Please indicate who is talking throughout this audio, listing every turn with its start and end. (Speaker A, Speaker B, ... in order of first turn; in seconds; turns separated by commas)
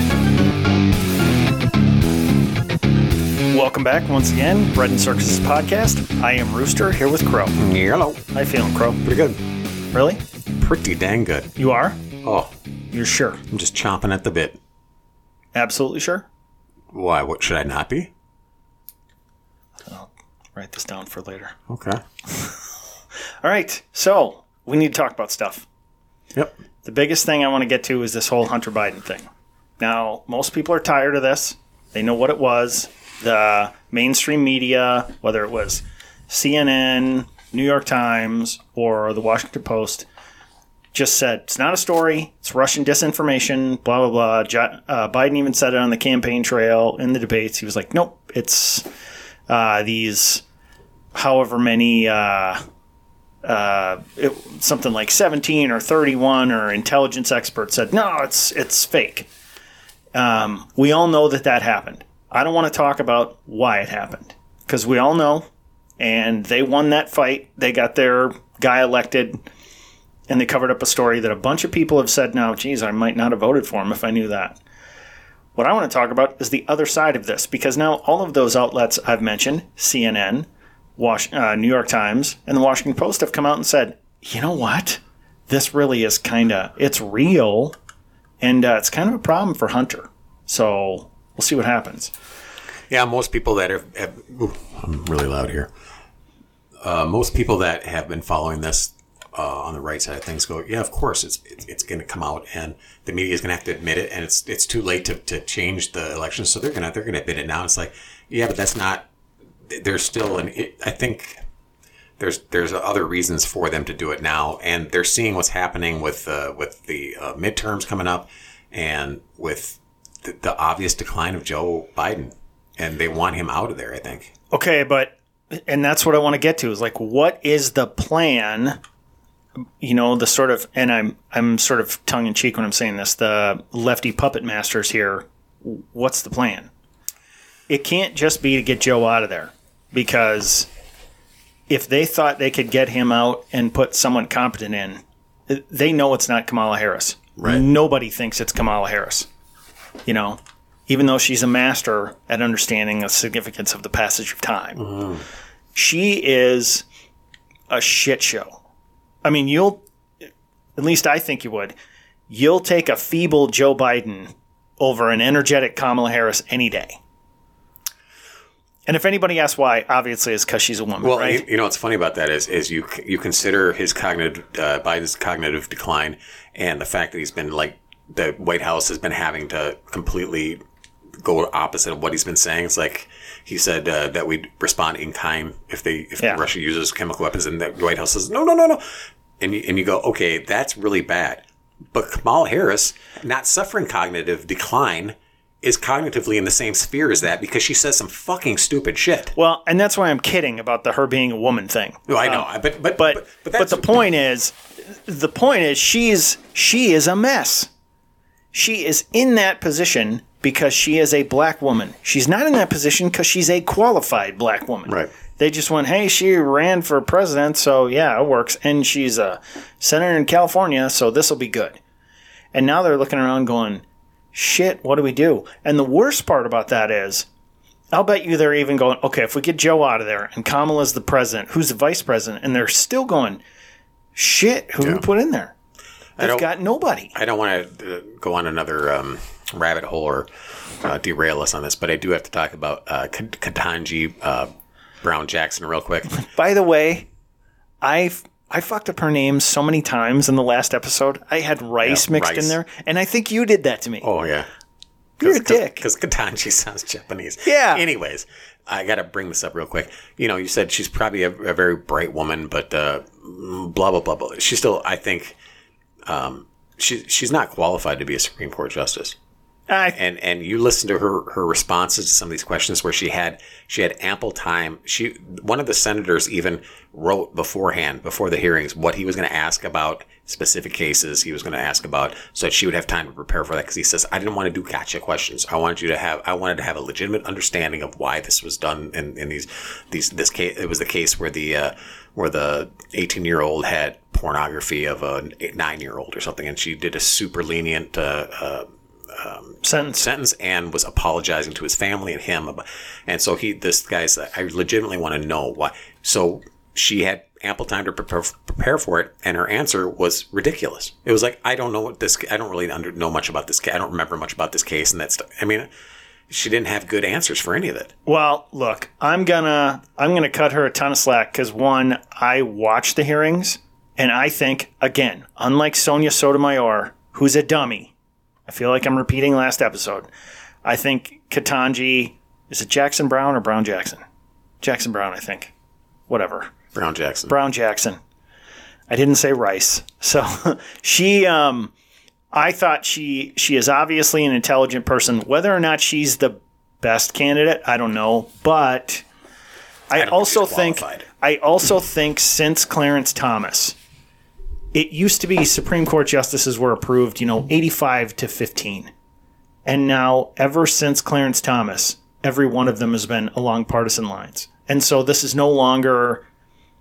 Speaker A: 3.5-7.6, Speaker B: 7.5-8.2, Speaker A: 8.3-9.0, Speaker B: 9.0-9.4, Speaker A: 9.9-10.2, Speaker B: 10.6-11.5, Speaker A: 11.6-12.0, Speaker B: 12.2-12.5, Speaker A: 12.9-13.4, Speaker B: 13.5-14.6, Speaker A: 15.5-16.2, Speaker B: 16.9-18.1, Speaker A: 19.9-21.6, Speaker B: 21.7-22.0, Speaker A: 22.2-22.6, Speaker A: 23.4-25.6, Speaker A: 26.8-29.3, Speaker A: 29.8-40.0, Speaker A: 40.9-48.9, Speaker A: 49.5-50.4, Speaker A: 51.1-52.6, Speaker A: 53.4-59.3, Speaker A: 60.1-65.5, Speaker A: 66.0-69.4, Speaker A: 70.3-74.6, Speaker A: 75.5-87.8, Speaker A: 88.4-92.1, Speaker B: 92.9-95.7, Speaker B: 96.8-109.1, Speaker B: 109.7-111.4, Speaker B: 112.2-124.3, Speaker A: 124.5-128.8, Speaker A: 129.8-136.7, Speaker A: 137.7-140.7, Speaker A: 141.7-149.3, Speaker B: 147.4-147.6, Speaker A: 150.1-154.8, Speaker B: 154.8-155.2, Speaker A: 155.7-156.8, Speaker A: 157.7-158.6, Speaker A: 159.2-159.8, Speaker A: 160.8-161.7, Speaker A: 162.3-167.0, Speaker A: 168.9-171.4, Speaker B: 171.0-180.6, Speaker B: 181.2-199.3, Speaker A: 199.3-207.7, Speaker B: 202.1-204.0, Speaker A: 208.5-221.8, Speaker A: 222.5-227.3, Speaker A: 227.9-233.4, Speaker A: 234.1-235.5, Speaker B: 236.2-236.5, Speaker A: 236.2-237.1, Speaker B: 237.1-244.5, Speaker B: 245.0-246.1, Speaker A: 246.2-247.1, Speaker A: 247.8-254.1, Speaker B: 251.8-252.6, Speaker B: 254.0-254.5, Speaker A: 255.2-255.8, Speaker B: 255.2-265.4, Speaker A: 257.4-257.8, Speaker B: 266.1-269.1, Speaker A: 269.7-270.0, Speaker B: 269.9-315.7, Speaker A: 299.6-300.0, Speaker B: 316.3-317.9, Speaker A: 318.1-327.9, Speaker A: 328.5-330.1, Speaker A: 330.6-334.0, Speaker A: 334.6-335.5, Speaker A: 336.1-336.5, Speaker B: 336.7-337.3, Speaker A: 337.3-338.0, Speaker A: 338.9-341.7, Speaker A: 342.3-349.0, Speaker A: 349.9-353.8, Speaker B: 349.9-351.1, Speaker A: 354.7-358.9, Speaker A: 359.6-366.2